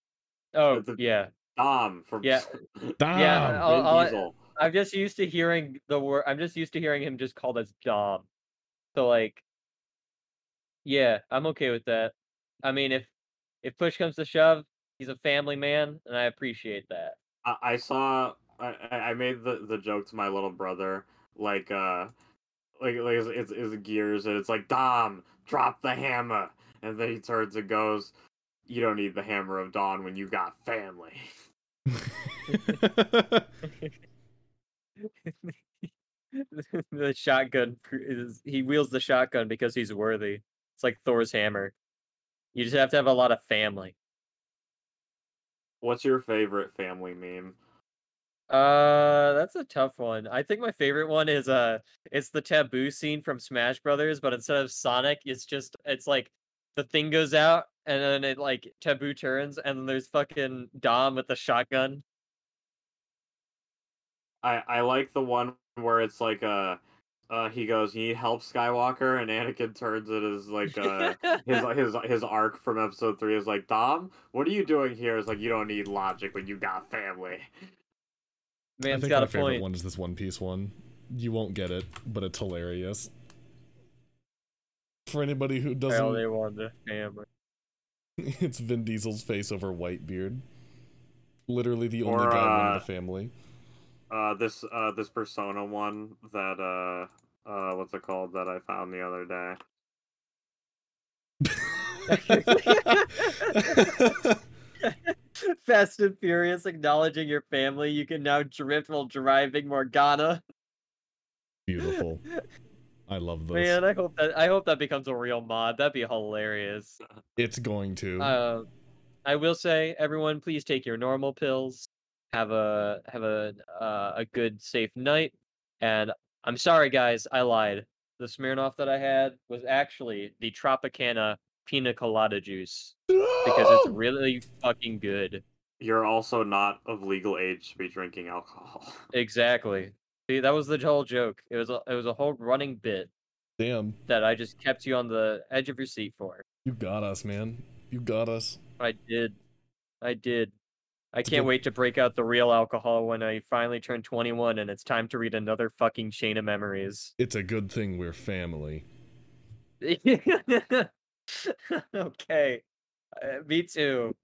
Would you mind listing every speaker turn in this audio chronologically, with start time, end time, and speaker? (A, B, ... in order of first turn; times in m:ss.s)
0:00.5-0:01.3 A
0:00.7-0:04.4 B
0:03.0-0:03.6 C
0:03.1-0:08.2 A
0:08.9-0:09.4 A
0:10.8-0:13.1 A
0:13.6-0:17.2 A
0:17.4-0:22.1 B
0:22.8-0:28.1 B
0:28.7-0:31.3 B
0:31.9-0:33.5 C
0:32.5-0:32.8 A
0:35.0-0:41.7 A
0:42.5-0:43.9 A
0:45.8-0:47.6 B
0:48.5-1:02.0 A
1:04.4-1:06.8 B
1:07.3-1:17.5 B
1:10.7-1:11.6 A
1:18.8-1:19.6 A
1:18.9-1:23.1 C
1:25.1-1:26.2 C
1:25.9-1:27.3 A
1:28.2-1:30.4 C
1:31.5-1:33.3 C
1:32.0-1:32.8 B
1:34.1-1:39.6 B
1:41.4-1:44.4 C
1:42.1-1:44.1 A
1:44.8-1:50.4 A
1:51.7-1:52.2 C
1:51.8-1:52.4 A
1:53.1-1:53.8 C
1:53.5-1:57.0 A
1:57.4-1:58.4 C
1:58.2-1:58.7 A
1:59.2-2:15.4 A
2:13.1-2:14.0 C
2:15.8-2:19.0 B
2:19.1-2:23.1 A
2:23.6-2:24.0 C
2:24.1-2:26.4 A
2:26.6-2:28.6 C
2:28.8-2:29.4 A
2:30.0-2:30.5 A
2:31.1-2:37.1 A
2:31.2-2:31.5 C
2:37.2-2:38.9 C
2:39.8-2:42.6 A
2:43.2-2:44.2 A